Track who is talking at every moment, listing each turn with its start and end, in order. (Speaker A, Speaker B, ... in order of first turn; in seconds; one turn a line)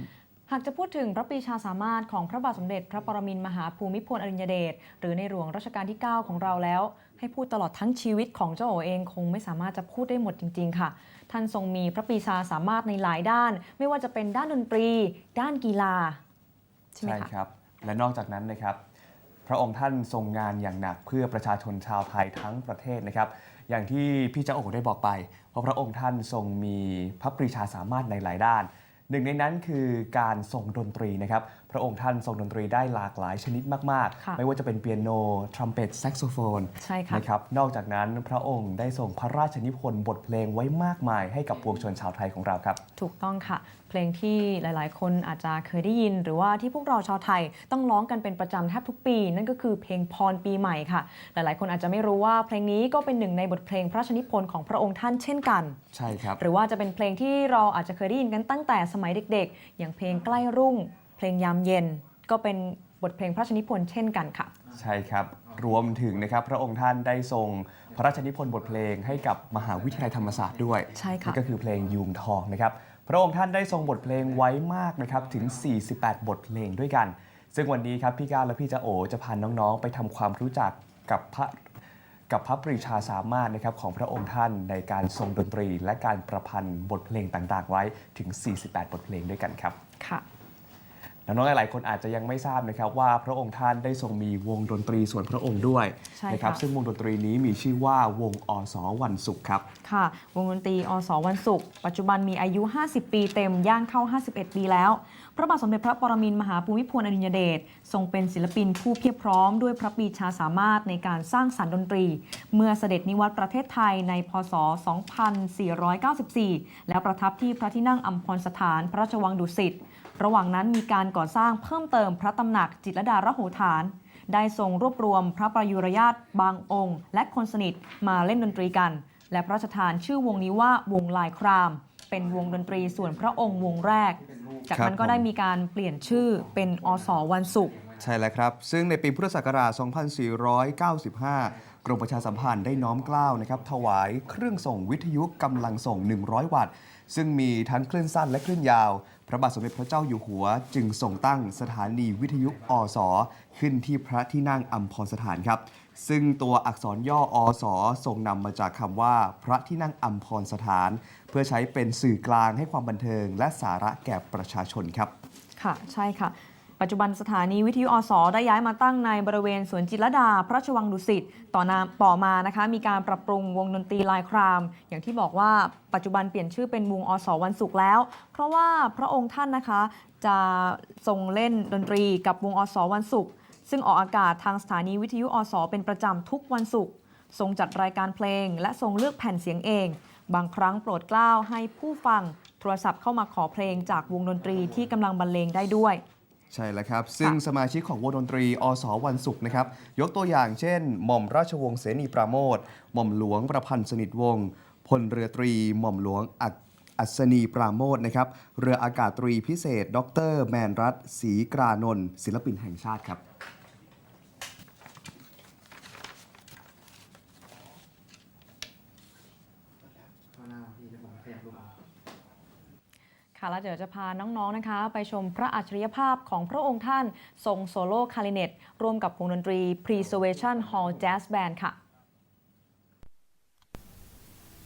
Speaker A: 0.5-16.2
Speaker A: 16.9-17.3
Speaker B: 17.0-18.8
Speaker B: 19.4-42.8
Speaker A: 36.8-37.2
Speaker A: 43.0-55.8
Speaker B: 55.9-56.4
Speaker A: 56.4-64.5
Speaker B: 64.7-81.6
Speaker A: 70.9-71.4
Speaker B: 82.3-89.8
Speaker B: 91.2-99.7
Speaker A: 96.2-96.6
Speaker A: 99.8-137.8
Speaker B: 134.7-135.2
Speaker B: 138.0-165.1
Speaker A: 165.6-196.0
Speaker B: 196.5-213.2
Speaker A: 223.3-231.8